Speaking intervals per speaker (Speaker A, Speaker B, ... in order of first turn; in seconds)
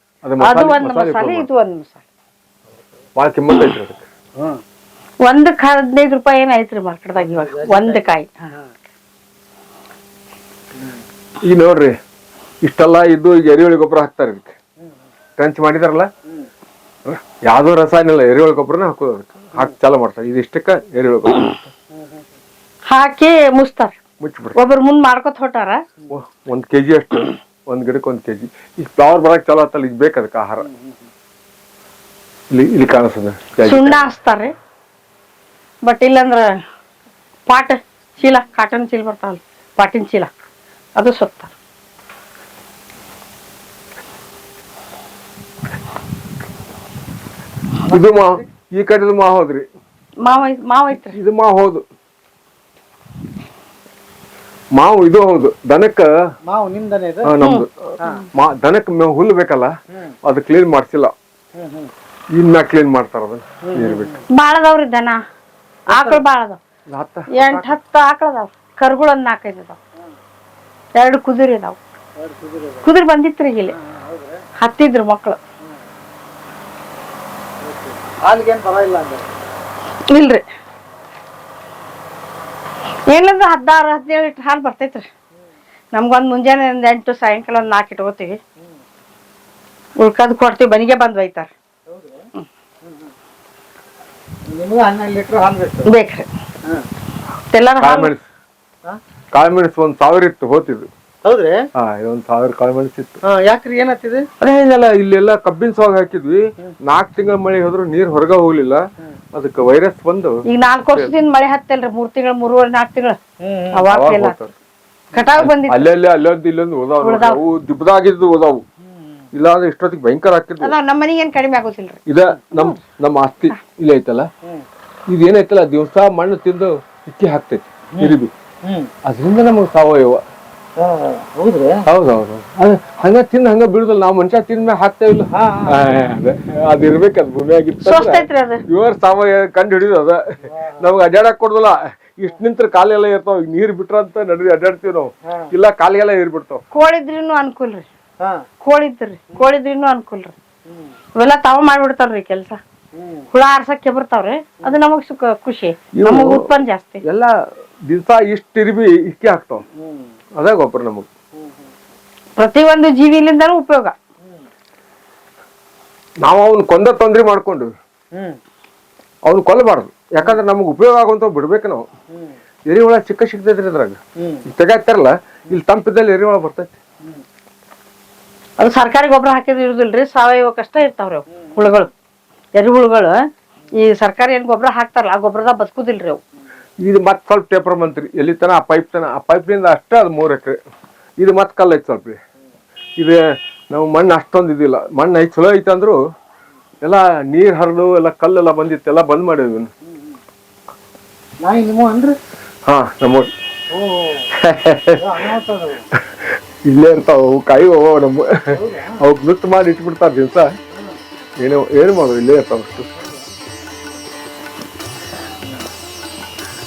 Speaker A: 0.2-1.5, 3.2-4.0, 11.4-11.9, 12.6-14.6, 15.4-16.1, 17.1-21.7, 24.2-24.6, 26.1-30.7, 32.5-34.0, 47.9-49.7, 50.9-51.8, 54.8-56.1, 57.2-59.7, 60.2-61.1, 62.3-64.2, 66.9-67.8, 97.8-98.3, 99.3-100.9, 101.8-103.2, 104.4-110.4, 113.9-114.5, 115.4-118.6, 119.3-120.7, 122.1-124.3, 125.1-128.3, 129.1-130.2, 131.9-146.6, 155.9-156.5, 157.0-157.3, 157.9-159.6, 160.4-161.1, 166.2-167.7, 169.2-171.9, 172.7-176.8, 186.8-190.6, 191.2-192.2, 193.7-196.0, 196.8-199.7, 202.7-203.3, 204.4-205.3, 206.0-210.5, 211.4-212.9
Speaker B: 0.4-2.0, 5.2-8.5, 22.9-24.0, 24.6-25.8, 33.6-34.5, 35.8-36.5, 37.5-40.3, 41.0-41.5, 50.2-51.2, 57.4-57.6, 64.3-65.2, 65.9-66.6, 67.3-69.8, 71.0-71.8, 72.8-73.8, 74.6-75.4, 80.1-80.5, 83.1-85.1, 85.9-88.4, 90.0-91.5, 95.9-96.3, 97.5-98.1, 110.5-113.2, 113.7-114.4, 115.1-115.9, 117.0-117.4, 120.6-122.0, 137.8-138.6, 146.7-147.9, 148.6-150.3, 151.2-152.6, 153.3-157.0, 162.4-163.9, 178.6-181.9, 182.6-183.2, 183.7-186.2
Speaker C: 7.2-8.6, 21.9-22.2, 30.7-31.0, 47.9-48.4, 56.5-57.3, 61.6-61.9, 63.6-64.2, 65.9-66.2, 72.2-72.9, 73.7-74.5, 77.6-79.3, 91.9-92.3, 92.8-93.1, 94.5-95.9, 101.2-101.6, 103.2-104.3, 113.4-113.8, 118.9-119.2, 128.0-128.9, 130.8-131.8, 135.3-135.8, 140.5-140.9, 150.7-151.0, 152.9-153.3, 159.8-160.1, 161.4-161.7, 172.1-172.4, 174.2-174.4, 181.4-181.6, 199.9-200.2, 201.4-202.2, 203.7-204.3, 205.0-205.8, 208.5-209.0, 213.0-213.3